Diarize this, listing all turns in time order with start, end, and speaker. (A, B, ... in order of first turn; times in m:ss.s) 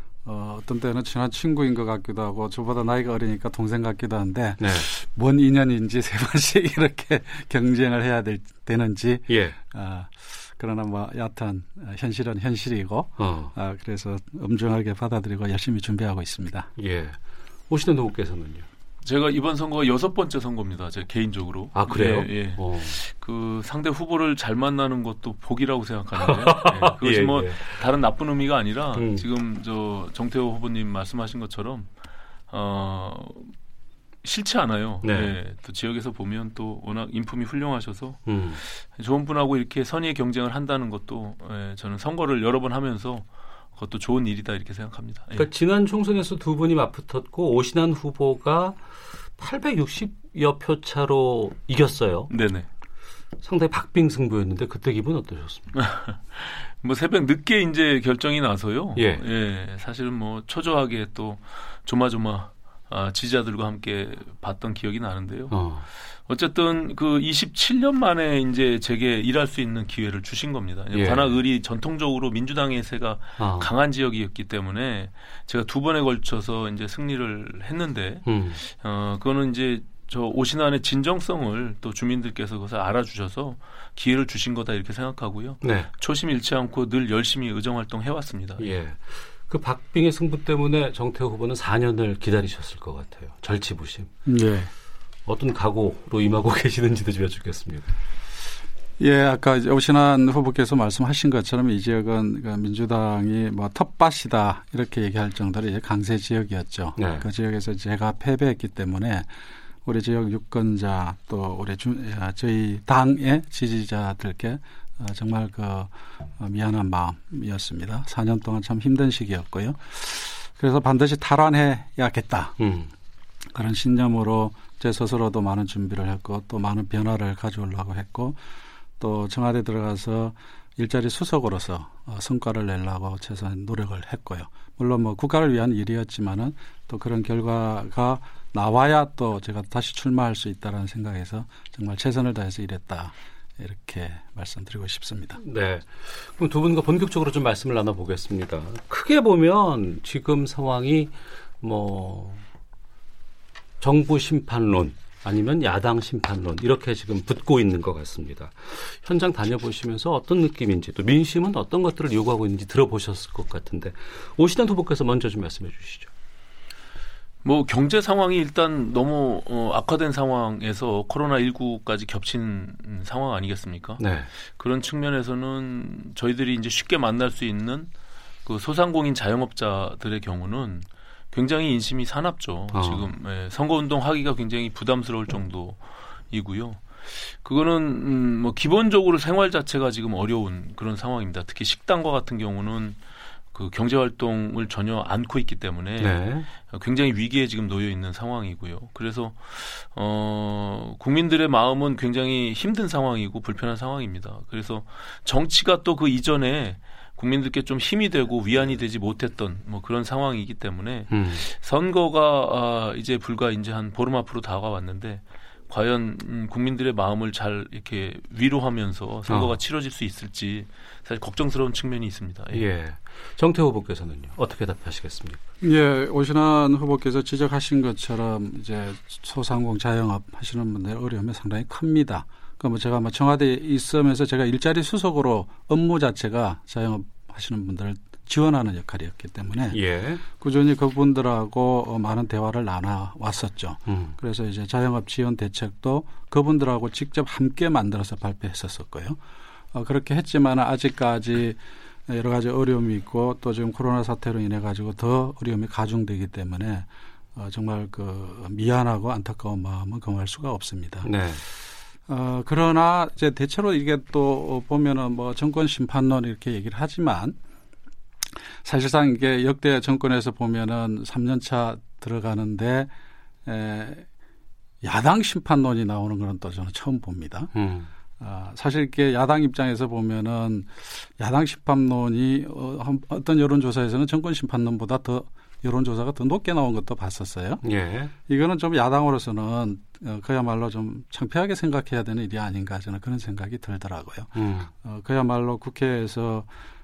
0:00.2-0:16.7 A
0:04.6-0:04.9 B
0:09.3-0:09.6 B
0:13.2-0:13.5 B
0:16.8-0:17.2 B
0:17.7-0:18.6 B
0:19.0-0:31.9 C
0:21.7-0:23.0 B
0:26.1-0:27.8 B
0:28.9-0:29.2 B
0:32.5-0:33.5 C
0:34.2-0:45.5 C
0:35.0-0:35.4 B
0:38.3-0:38.6 B
0:45.4-0:48.8 B
0:49.4-0:52.3 B
0:52.3-0:52.7 C
0:53.4-0:55.7 B
0:55.8-1:05.6 C
0:59.0-0:59.2 B
1:05.5-1:05.8 B
1:06.2-1:28.7 C
1:10.9-1:11.3 B
1:13.4-1:13.7 B
1:18.2-1:18.6 B
1:25.6-1:25.9 B
1:28.6-1:34.1 B
1:34.2-1:34.7 A
1:35.3-1:37.9 B
1:39.0-1:49.3 A
1:47.0-1:47.2 B
1:49.8-2:02.6 A
2:02.6-2:02.9 B
2:03.5-2:08.4 A
2:09.0-2:25.4 A
2:25.4-2:32.4 B
2:33.8-2:46.1 B
2:47.4-2:57.9 C
2:54.0-2:54.3 B
2:58.4-3:13.0 C
3:02.7-3:03.0 B
3:13.5-3:42.6 C
3:16.0-3:16.4 B
3:31.1-3:31.4 B
3:39.3-3:39.5 B
3:42.5-3:45.4 B
3:45.6-4:09.2 A
3:59.7-4:00.2 B
4:03.9-4:04.1 B
4:09.7-4:21.1 A
4:21.0-4:21.4 B
4:22.1-4:27.4 A
4:28.6-4:32.9 A
4:33.4-4:34.0 A
4:34.8-4:37.5 A
4:37.5-4:37.9 B
4:38.2-4:47.6 A
4:47.6-4:48.1 B
4:48.2-4:56.5 A
4:54.4-4:54.7 B